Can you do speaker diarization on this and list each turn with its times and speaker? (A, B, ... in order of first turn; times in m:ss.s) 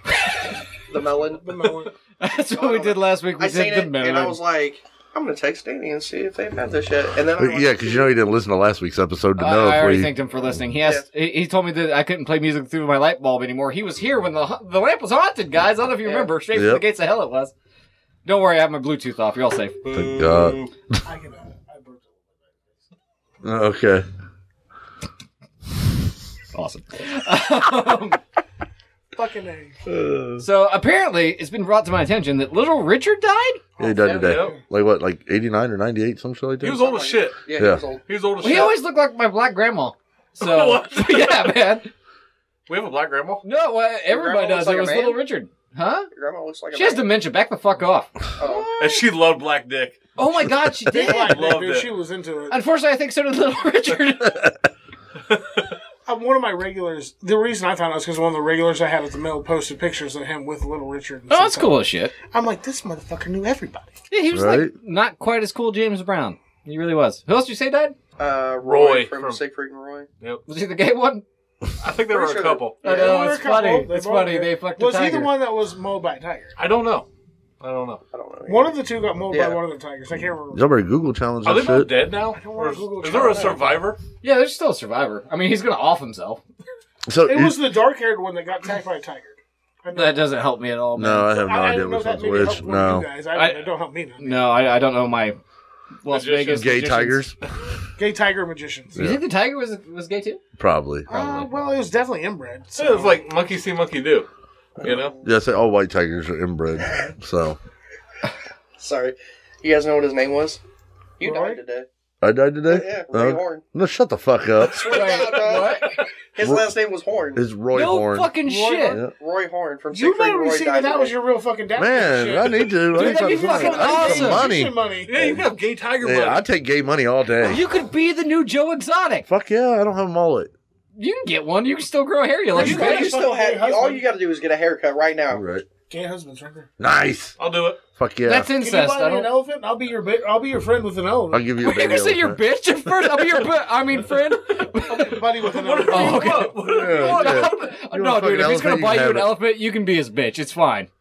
0:00.9-0:01.5 A
0:01.3-0:01.9 B
0:02.2-0:04.4 C
0:02.5-0:08.1 A
0:07.4-0:10.1 D
0:09.4-0:17.5 C
0:16.0-0:16.3 A
0:16.5-0:16.8 D
0:18.2-0:19.8 C
0:19.8-0:20.7 E
0:19.9-0:21.0 D
0:21.0-0:22.8 B
0:23.4-0:24.1 D
0:26.5-0:28.2 C
0:29.1-0:29.8 B
0:30.0-0:30.3 D
0:30.4-0:33.6 C
0:33.8-0:34.6 B
0:33.8-0:36.9 D
0:34.0-0:34.4 A
0:34.0-0:34.6 E
0:36.6-0:37.4 E
0:36.8-0:38.0 A
0:37.6-0:37.8 D
0:38.1-0:38.8 E
0:38.4-0:41.9 C
0:40.4-0:41.6 E
0:42.7-0:43.4 E
0:43.4-0:46.1 C
0:44.1-0:45.3 A
0:46.1-0:47.2 A
0:46.7-0:48.9 C
0:48.4-0:48.7 A
0:48.8-0:50.0 E
0:50.2-0:51.5 C
0:50.9-0:52.6 B
0:51.0-0:51.9 E
0:52.5-0:54.5 C
0:56.1-1:03.9 B
1:01.3-1:02.1 C
1:04.1-1:08.0 C
1:04.3-1:04.7 D
1:08.2-1:10.1 A
1:08.6-1:09.4 E
1:10.5-1:11.2 C
1:11.8-1:12.8 E
1:12.1-1:12.7 A
1:12.8-1:15.3 C
1:12.8-1:16.5 B
1:16.6-1:17.1 E
1:17.6-1:18.0 E
1:18.1-1:18.8 A
1:18.5-1:20.7 B
1:19.3-1:19.6 A
1:20.5-1:22.0 D
1:21.4-1:24.0 E
1:22.2-1:23.8 B
1:23.3-1:23.6 A
1:24.2-1:26.4 C
1:27.1-1:27.7 D
1:27.3-1:30.3 B
1:29.9-1:31.3 C
1:31.0-1:33.1 D
1:31.2-1:34.5 B
1:33.4-1:33.6 C
1:34.2-1:35.4 C
1:36.0-1:37.2 C
1:36.1-1:37.0 E
1:36.5-1:37.4 D
1:38.0-1:39.0 B
1:38.9-1:39.2 D
1:39.0-1:40.4 C
1:40.6-1:41.1 D
1:41.1-1:41.5 C
1:41.1-1:43.2 B
1:42.8-1:44.3 E
1:44.8-1:45.1 E
1:44.8-1:45.3 A
1:45.2-1:47.6 D
1:48.8-1:50.6 A
1:51.2-1:51.9 A
1:51.2-1:51.6 B
1:52.2-1:55.0 D
1:52.7-1:53.6 A
1:54.7-1:57.4 A
1:54.8-1:55.9 C
1:57.4-1:58.3 D
1:57.7-1:59.0 C
1:58.4-1:59.1 B
1:59.2-2:01.2 A
1:59.9-2:05.1 B
2:01.8-2:05.4 D
2:02.9-2:04.5 C
2:05.1-2:06.4 E
2:06.0-2:07.6 D
2:07.4-2:09.3 C
2:09.3-2:10.5 D
2:11.0-2:13.2 C
2:12.5-2:14.1 B
2:12.6-2:15.4 A
2:15.3-2:15.6 D
2:15.9-2:16.7 B
2:16.8-2:17.4 D
2:17.4-2:17.8 E
2:18.0-2:18.5 D
2:18.2-2:19.3 C
2:18.5-2:21.5 B
2:21.3-2:22.4 D
2:21.6-2:25.2 C
2:24.9-2:26.6 B
2:25.4-2:27.7 E
2:25.9-2:30.9 C
2:26.6-2:29.4 D